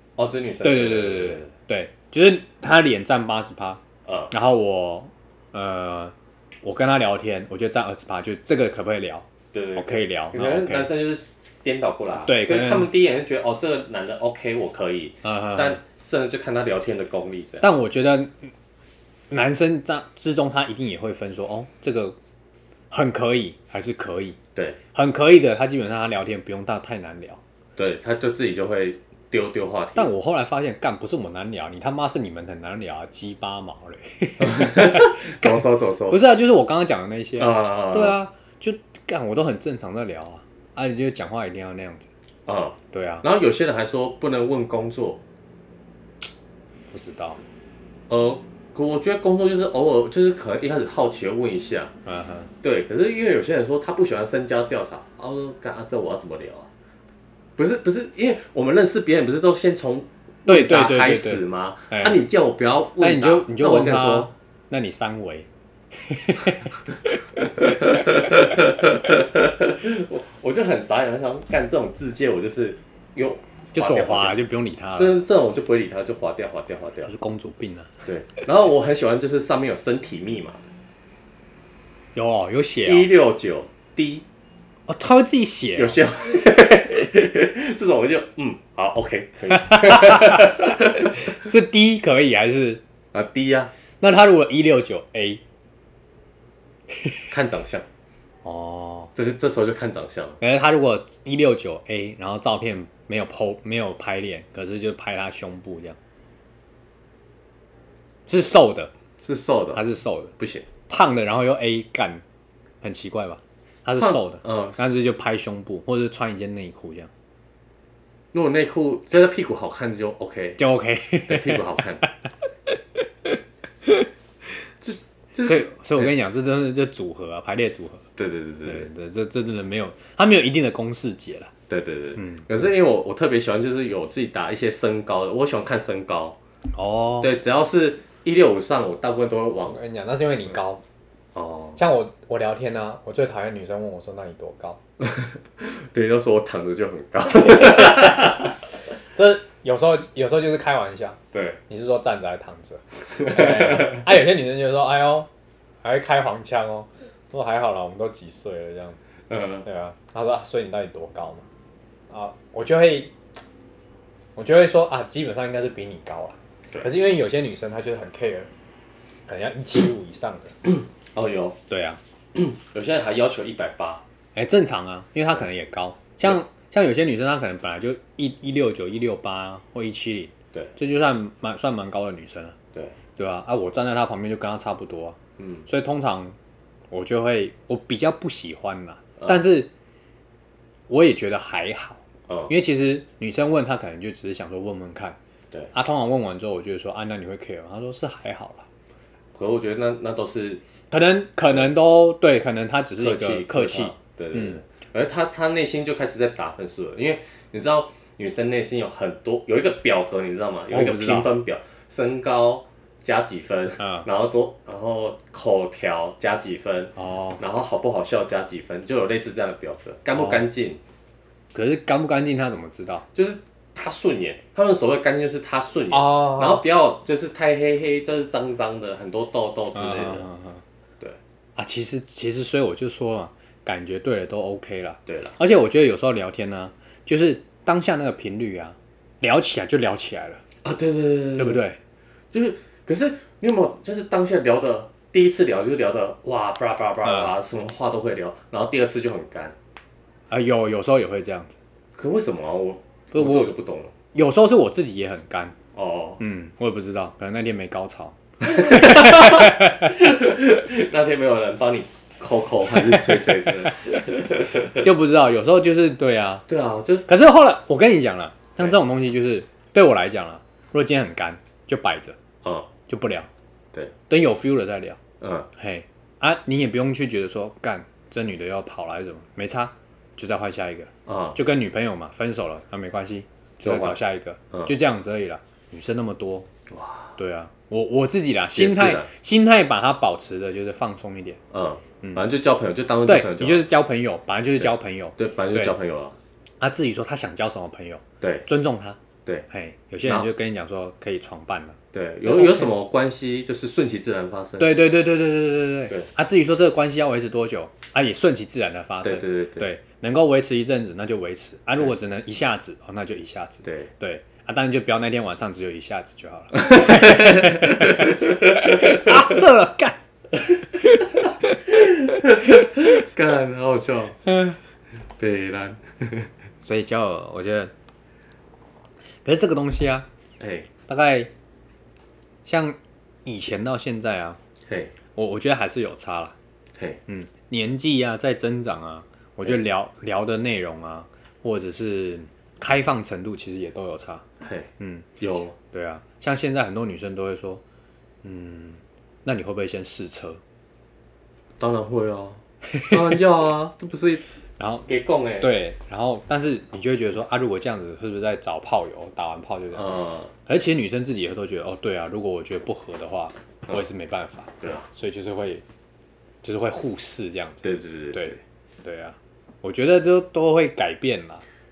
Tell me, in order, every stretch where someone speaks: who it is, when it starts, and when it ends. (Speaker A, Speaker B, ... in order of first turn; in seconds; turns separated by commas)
Speaker A: 0.2-1.5, Speaker B: 0.6-10.9, Speaker A: 4.0-4.3, Speaker A: 9.5-17.7, Speaker B: 12.2-12.9, Speaker B: 15.2-15.8, Speaker B: 17.6-18.5, Speaker B: 19.3-22.1, Speaker B: 22.9-24.4, Speaker B: 24.9-27.4, Speaker A: 27.8-30.1, Speaker B: 29.9-42.1, Speaker A: 34.4-36.2, Speaker A: 37.4-38.2, Speaker A: 42.5-45.2, Speaker B: 42.9-43.2, Speaker B: 46.9-47.4, Speaker A: 48.1-51.9, Speaker B: 52.0-52.5, Speaker A: 52.6-56.7, Speaker A: 57.6-64.3, Speaker B: 60.5-62.2, Speaker B: 63.0-69.0, Speaker A: 67.4-74.4, Speaker B: 73.7-75.2, Speaker A: 75.0-77.1, Speaker B: 77.0-77.9, Speaker A: 78.0-80.6, Speaker B: 82.1-83.1, Speaker A: 82.8-84.2, Speaker B: 84.9-86.0, Speaker A: 85.8-91.2, Speaker B: 89.5-92.8, Speaker A: 93.1-93.7, Speaker B: 94.0-95.4, Speaker A: 97.3-97.8, Speaker B: 98.4-99.1, Speaker A: 99.1-100.4, Speaker B: 100.4-106.0, Speaker B: 108.3-108.9, Speaker A: 109.2-109.8, Speaker B: 109.7-110.3, Speaker A: 110.4-110.7, Speaker B: 110.9-112.2, Speaker B: 112.8-117.1, Speaker A: 114.0-114.9, Speaker A: 118.3-120.6, Speaker B: 120.6-122.1, Speaker A: 121.3-122.0, Speaker B: 122.7-124.1, Speaker A: 124.8-126.1, Speaker B: 125.4-128.1, Speaker A: 128.2-128.9, Speaker B: 128.7-131.5, Speaker A: 131.7-136.4, Speaker B: 132.2-132.7, Speaker B: 136.8-137.3, Speaker A: 137.2-139.8, Speaker B: 139.7-140.8, Speaker A: 141.3-141.8, Speaker B: 141.8-144.8, Speaker A: 145.0-148.5, Speaker B: 149.1-155.3, Speaker A: 151.3-151.6, Speaker A: 153.2-154.0, Speaker B: 155.8-159.0, Speaker A: 159.3-159.7, Speaker B: 159.6-161.4, Speaker B: 162.1-163.1, Speaker B: 164.3-168.5, Speaker B: 169.3-170.6, Speaker A: 171.0-171.6, Speaker B: 171.7-172.0, Speaker A: 172.3-174.0, Speaker B: 174.3-182.6, Speaker B: 183.2-186.3, Speaker A: 185.4-185.7, Speaker B: 186.9-189.7, Speaker B: 190.9-195.2, Speaker B: 195.7-198.7, Speaker A: 199.3-200.6, Speaker B: 200.9-204.6, Speaker A: 203.0-220.8, Speaker B: 210.7-211.3, Speaker B: 213.8-214.1, Speaker B: 217.0-217.4, Speaker B: 220.1-220.4, Speaker B: 221.5-223.1, Speaker A: 223.1-230.2, Speaker B: 225.9-226.6, Speaker B: 229.7-230.6, Speaker B: 231.6-240.4, Speaker A: 235.1-235.3, Speaker A: 240.6-241.6, Speaker B: 241.4-241.8, Speaker A: 242.3-249.5, Speaker B: 247.0-247.3, Speaker B: 250.3-251.6, Speaker A: 251.9-253.9, Speaker B: 253.1-253.5, Speaker B: 254.1-255.6, Speaker A: 255.7-256.2, Speaker B: 256.2-260.0, Speaker A: 258.4-264.9, Speaker B: 264.5-266.4, Speaker A: 266.5-267.1, Speaker B: 267.1-272.2, Speaker A: 272.4-272.7, Speaker B: 272.9-273.3, Speaker B: 274.1-275.0, Speaker A: 275.2-275.5, Speaker B: 275.6-286.5, Speaker A: 281.1-281.4, Speaker A: 283.6-284.0, Speaker A: 286.7-287.1, Speaker B: 287.2-291.4, Speaker A: 288.5-289.1, Speaker A: 291.5-293.6, Speaker B: 293.1-295.7, Speaker A: 295.2-296.2, Speaker B: 296.6-299.0, Speaker A: 298.2-298.5, Speaker B: 299.5-302.7, Speaker A: 300.0-300.3, Speaker A: 301.9-304.7, Speaker B: 304.6-320.0, Speaker A: 309.0-309.7, Speaker A: 313.6-313.9, Speaker A: 316.5-319.1, Speaker B: 320.8-321.6, Speaker A: 321.7-324.2, Speaker A: 325.2-326.3, Speaker B: 326.6-327.7, Speaker B: 329.2-330.1, Speaker A: 330.4-330.7, Speaker B: 330.9-331.3, Speaker B: 332.4-334.4, Speaker A: 334.7-334.9, Speaker B: 335.1-336.3, Speaker B: 337.1-344.2, Speaker A: 344.4-344.7, Speaker B: 344.8-347.6, Speaker A: 345.2-345.5, Speaker B: 348.2-350.4, Speaker A: 351.6-354.2, Speaker B: 354.6-354.9, Speaker A: 354.9-355.5, Speaker B: 355.4-359.9, Speaker A: 359.7-360.3, Speaker B: 360.4-365.6, Speaker A: 364.6-364.9, Speaker B: 366.4-371.4, Speaker A: 367.6-368.4